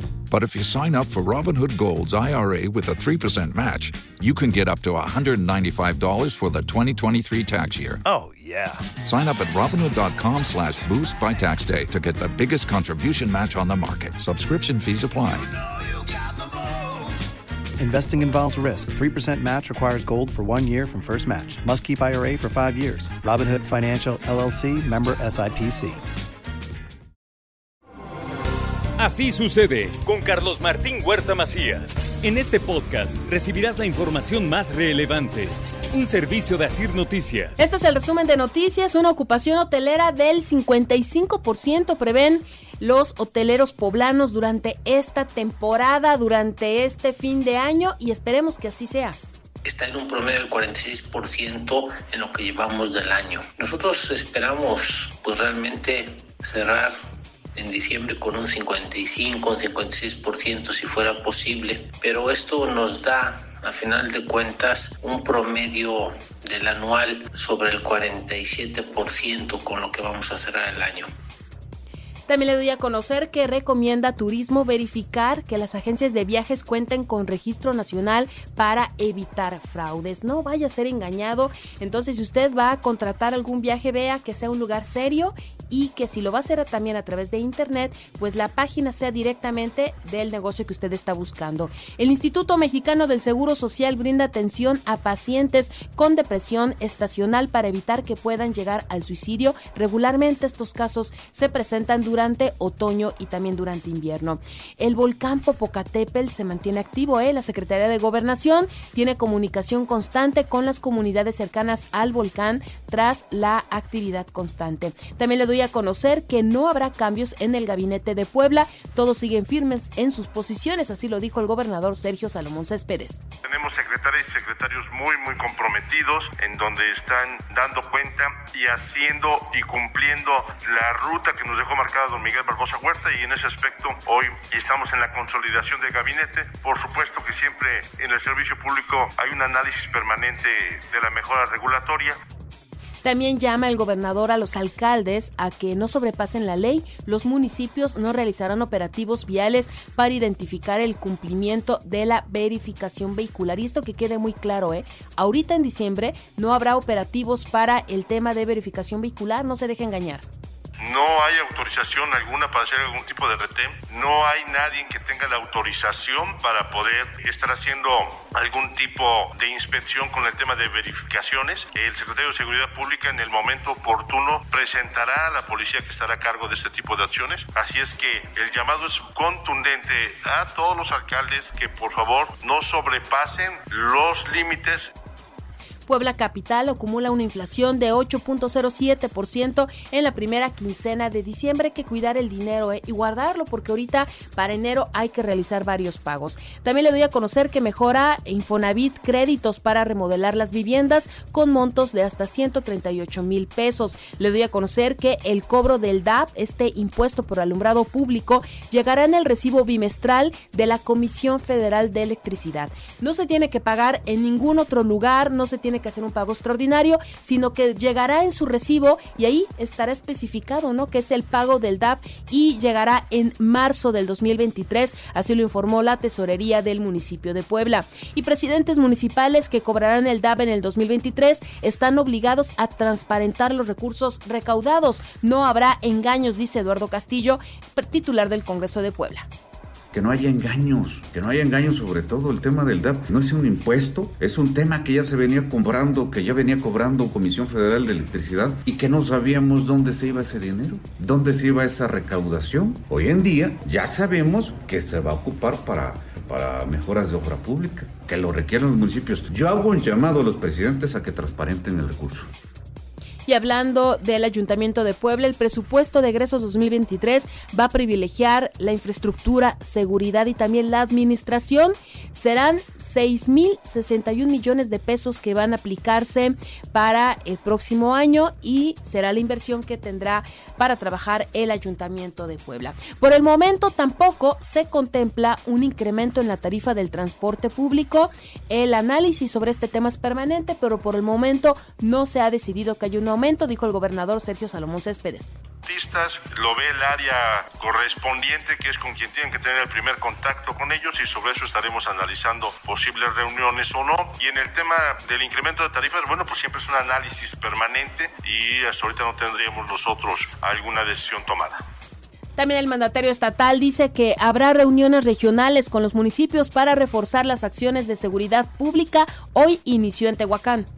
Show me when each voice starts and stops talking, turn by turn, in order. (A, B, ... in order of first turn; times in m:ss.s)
0:00.3-0:08.0 A
0:08.0-0:08.9 B
0:09.0-0:15.5 A
0:17.8-0:26.0 B
0:29.0-0:37.6 C
0:37.6-0:49.2 D
0:49.6-0:57.0 E
0:57.6-1:11.1 E
1:12.3-2:03.2 D
2:03.4-2:22.2 F
2:23.0-2:40.2 D
2:40.8-3:04.9 F
3:05.9-3:59.3 D
3:59.9-4:22.3 G
4:23.3-4:55.3 D
4:55.6-5:11.6 F
5:12.4-5:20.7 D